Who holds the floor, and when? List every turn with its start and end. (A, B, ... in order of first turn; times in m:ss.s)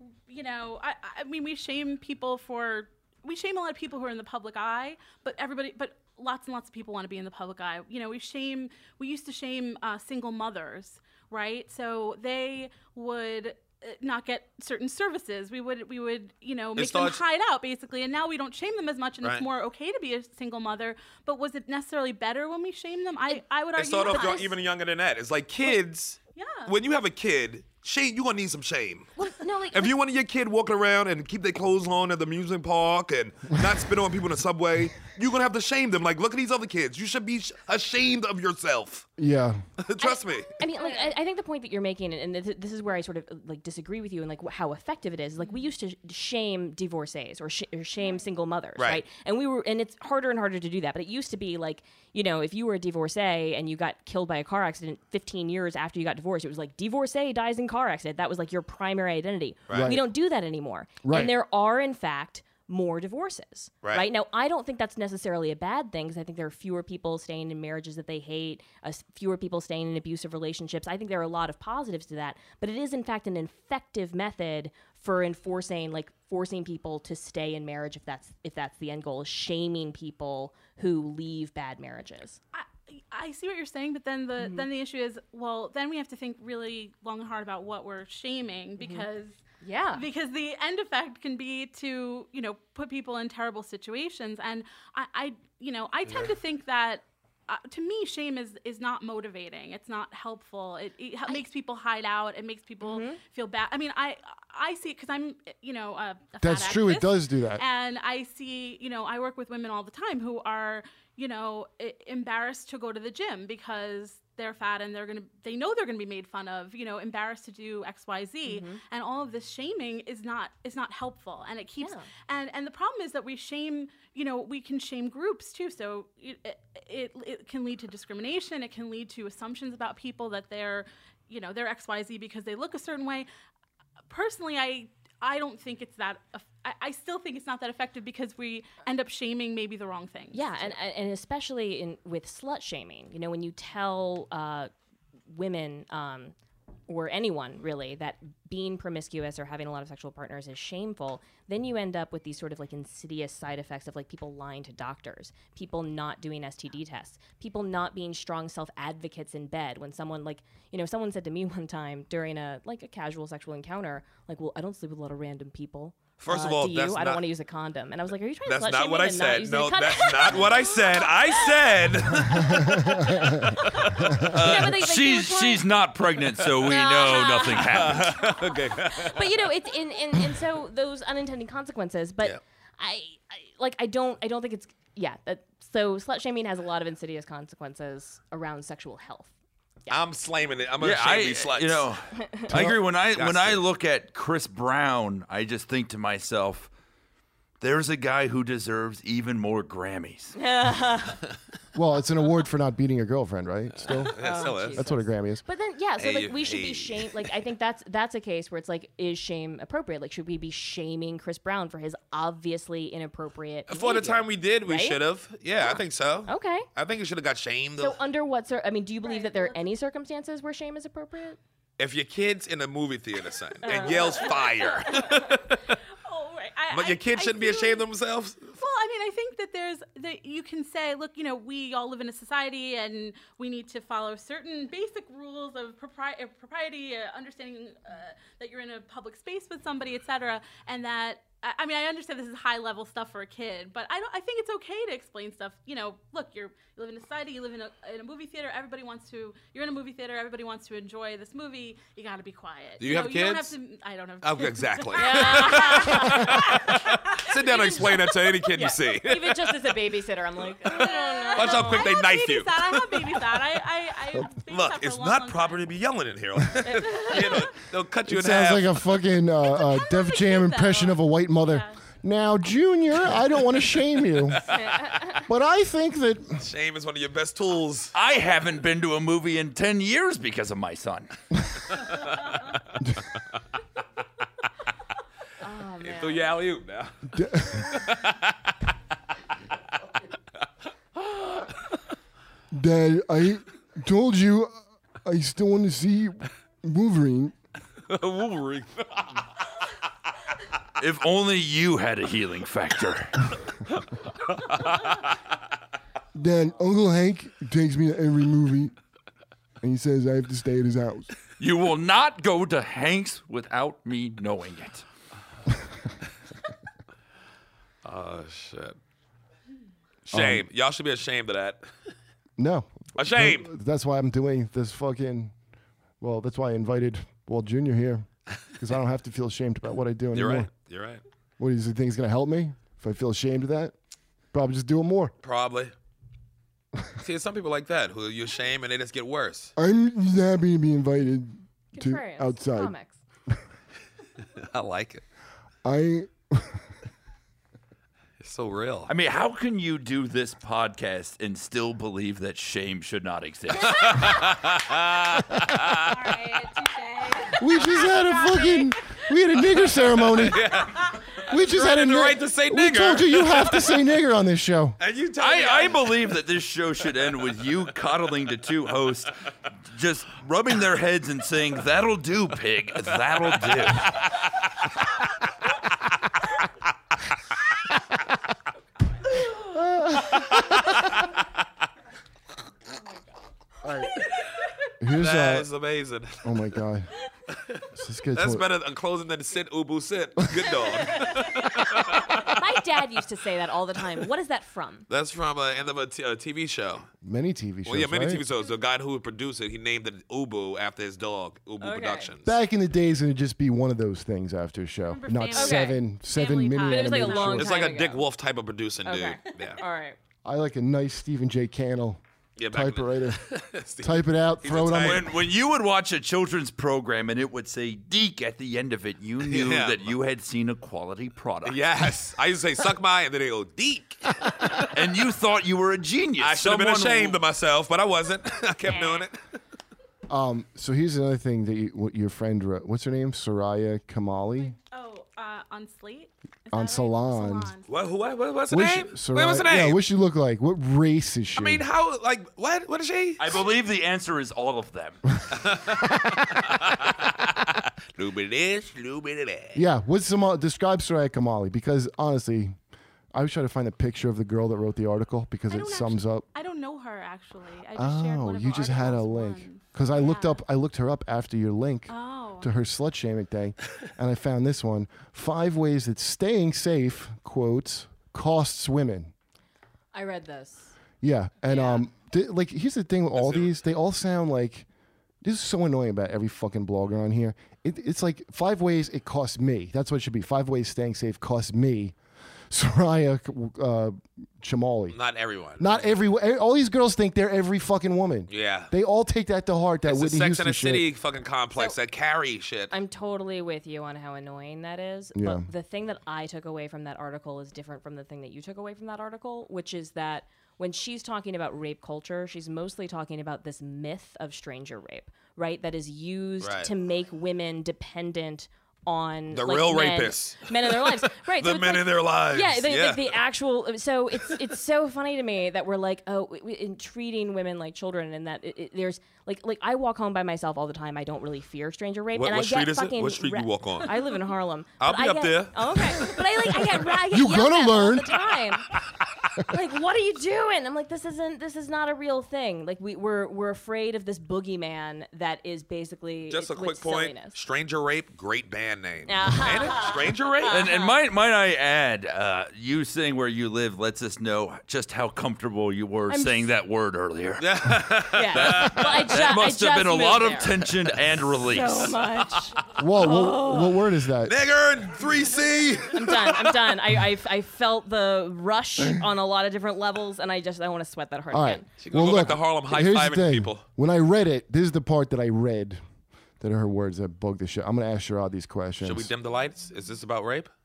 0:00.3-0:24.5 A
0:16.8-0:17.2 B
0:23.8-0:29.1 B
0:24.1-0:24.4 C
0:26.3-0:26.7 A
0:29.2-0:30.0 C
0:29.7-0:39.1 B
0:39.2-0:39.6 D
0:39.8-0:40.5 B
0:40.0-1:22.4 C
0:40.8-0:41.1 A
0:48.8-0:49.0 B
0:59.7-1:00.0 B
0:59.7-1:00.1 D
1:01.0-1:01.3 D
1:22.5-1:29.4 A
1:24.4-1:24.7 C
1:28.8-1:29.1 C
1:29.6-1:30.1 C
1:29.9-2:13.3 A
1:42.8-1:43.2 C
1:46.4-1:47.6 D
1:58.5-1:58.8 C
2:01.8-2:02.1 C
2:14.1-2:20.7 A
2:20.3-2:24.7 C
2:25.3-2:26.4 C
2:26.9-2:51.7 C
2:46.2-2:47.2 B
2:48.5-2:54.8 B
2:52.3-2:53.5 D
2:52.7-2:55.7 C
2:54.2-2:58.2 E
2:56.6-3:09.3 C
2:57.5-2:59.2 B
3:09.9-3:11.9 B
3:10.8-3:16.7 E
3:12.5-3:12.8 D
3:13.1-3:13.6 B
3:17.6-3:20.4 E
3:20.4-3:21.2 C
3:21.7-3:25.4 D
3:23.9-3:24.9 B
3:24.2-3:35.0 C
3:26.0-3:27.2 B
3:33.7-3:38.0 B
3:35.7-3:36.7 C
3:37.8-3:41.4 C
3:39.0-3:39.7 A
3:41.8-3:45.8 B
3:43.6-3:45.1 C
3:43.7-3:45.4 A
3:46.0-3:47.9 A
3:46.7-3:48.6 B
3:48.6-4:18.6 A
4:12.8-4:13.5 B
4:14.2-4:19.5 B
4:15.0-4:16.8 C
4:18.5-4:21.9 C
4:20.7-4:25.6 A
4:21.3-4:23.4 B
4:24.5-4:28.7 B
4:26.7-4:27.4 C
4:26.9-4:27.4 A
4:28.1-4:34.6 D
4:29.5-4:31.8 A
4:35.1-4:36.4 D
4:36.4-4:37.9 B
4:37.9-4:41.1 E
4:41.8-4:42.1 B
4:45.4-4:46.4 C
4:45.8-4:48.4 B
4:47.1-4:47.7 D
4:51.1-4:51.4 B
4:52.5-4:57.3 D
4:57.9-4:59.3 B
5:00.8-5:03.3 E
5:06.1-5:08.7 D
5:09.6-5:11.1 D
5:11.4-5:14.9 E
5:17.8-5:18.8 B
5:20.1-5:21.7 B
5:20.1-5:20.5 D
5:22.4-5:25.3 D
5:23.0-5:23.5 B
5:26.0-5:30.5 D
5:30.1-5:31.0 B
5:31.4-5:33.7 D
5:34.3-5:35.1 D
5:35.2-5:35.7 B
5:37.0-5:39.5 B
5:39.6-5:42.7 D
5:41.7-5:43.0 C
5:44.4-5:45.0 B
5:45.6-5:46.6 D
5:48.2-5:48.9 B
5:48.9-5:54.5 E
5:53.7-5:55.8 B
5:55.8-5:58.8 A
5:57.4-6:00.6 D
6:00.0-6:03.8 B
6:01.3-6:04.8 D
6:04.8-6:06.2 B
6:05.2-6:09.2 E
6:09.7-6:14.1 E
6:19.4-6:20.7 D
6:23.6-6:23.9 D
6:24.8-6:25.5 D
6:25.0-6:26.4 B
6:26.2-6:26.9 D
6:27.3-6:27.6 B
6:27.7-6:28.5 D
6:28.2-6:32.3 B
6:31.8-6:34.9 C
6:34.9-6:36.9 B
6:37.0-6:38.2 D
6:37.6-6:42.3 B
6:41.6-6:42.1 C
6:42.2-6:47.6 D
6:44.9-6:47.4 A
6:45.3-6:45.8 C
6:46.6-6:48.1 C
6:47.3-6:49.6 B
6:48.8-6:50.0 C
6:50.2-6:55.1 D
6:52.4-6:55.1 B
6:54.7-7:01.7 E
6:59.2-6:59.9 B
7:01.4-7:04.7 B
7:04.6-7:07.2 E
7:06.2-7:09.2 B
7:10.1-7:14.6 D
7:14.6-7:17.7 A
7:16.5-7:17.6 D
7:17.7-7:19.8 B
7:18.5-7:21.7 D
7:21.4-7:23.4 B
7:23.2-7:25.2 E
7:25.4-7:26.0 B
7:27.9-7:29.6 B
7:29.5-7:32.6 D
7:33.1-7:36.3 D
7:35.5-7:40.4 A
7:37.8-7:49.1 D
7:41.9-7:42.5 A
7:49.9-7:50.7 C
7:51.0-7:54.7 D
7:51.5-7:51.8 A
7:53.2-7:53.5 B
7:55.2-8:02.0 D
8:02.5-8:05.0 D
8:04.9-8:06.0 B
8:05.6-8:10.9 D
8:08.3-8:08.7 B
8:09.8-8:12.7 B
8:12.7-8:48.7 C
8:15.1-8:15.5 D
8:26.4-8:26.7 B
8:29.3-8:33.2 B
8:42.1-8:44.0 B
8:44.8-8:46.1 B
8:47.1-8:48.3 D
8:49.4-8:57.4 C
8:56.3-9:00.6 B
8:59.1-9:01.0 C
9:00.5-9:12.0 E
9:06.1-9:06.5 C
9:07.4-9:09.4 B
9:08.1-9:10.7 C
9:11.4-9:13.8 C
9:12.7-9:14.5 D
9:14.2-9:16.7 B
9:15.9-9:21.7 C
9:21.3-9:25.8 D
9:21.8-9:23.6 B
9:26.4-9:29.1 D
9:28.8-9:30.5 B